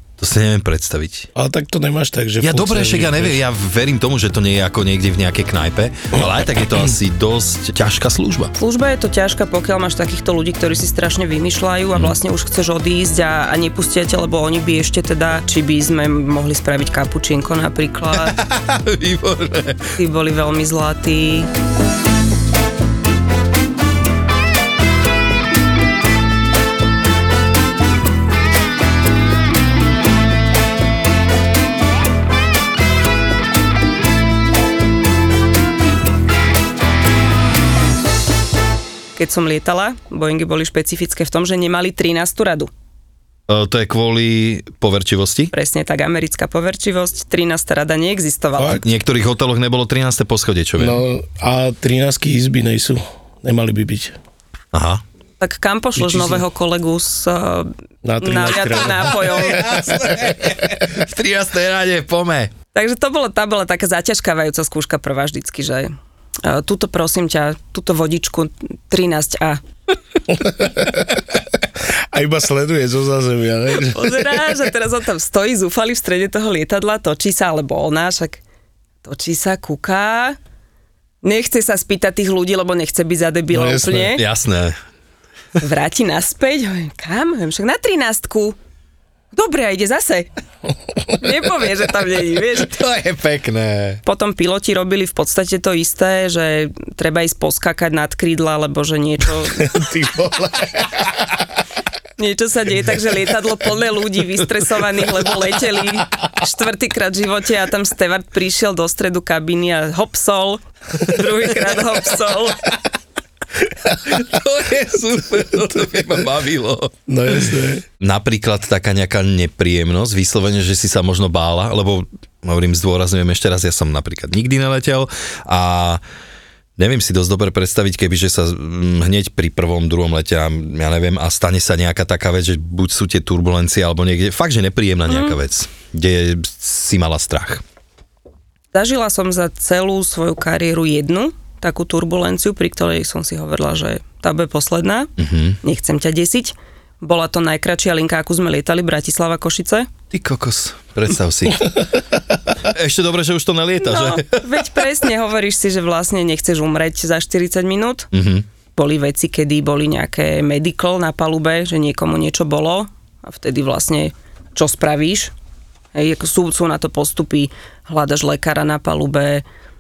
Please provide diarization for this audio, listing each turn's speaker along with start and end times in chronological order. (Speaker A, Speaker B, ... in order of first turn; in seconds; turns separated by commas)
Speaker A: 0.2-1.3, Speaker B: 1.4-3.4, Speaker A: 2.4-8.5, Speaker C: 8.6-18.4, Speaker A: 18.2-20.0, Speaker C: 20.0-21.5, Speaker C: 39.2-42.7, Speaker A: 43.5-45.5, Speaker C: 45.5-48.8, Speaker B: 48.6-48.8, Speaker A: 48.8-51.0, Speaker B: 50.8-54.2, Speaker A: 54.7-55.0, Speaker C: 55.4-59.6, Speaker B: 56.0-56.4, Speaker B: 58.0-60.3, Speaker A: 59.1-62.5, Speaker C: 62.8-65.9, Speaker C: 66.4-69.6, Speaker B: 70.4-71.0, Speaker B: 72.1-74.2, Speaker C: 73.8-78.4, Speaker C: 79.0-80.4, Speaker C: 81.2-84.2, Speaker B: 83.5-84.1, Speaker A: 83.9-84.8, Speaker C: 85.6-88.6, Speaker C: 89.3-90.3, Speaker C: 91.2-92.8, Speaker A: 92.6-94.0, Speaker C: 94.0-99.8, Speaker B: 99.6-100.9, Speaker C: 102.2-112.6, Speaker A: 114.0-116.9, Speaker B: 117.1-117.8, Speaker A: 118.0-126.0, Speaker A: 126.8-137.6, Speaker C: 135.1-135.4, Speaker C: 138.7-145.1, Speaker A: 145.2-145.6, Speaker C: 145.6-149.9, Speaker A: 150.1-151.8, Speaker A: 152.7-154.6, Speaker C: 153.8-158.1, Speaker A: 158.1-158.4, Speaker C: 158.8-165.3, Speaker C: 165.9-169.4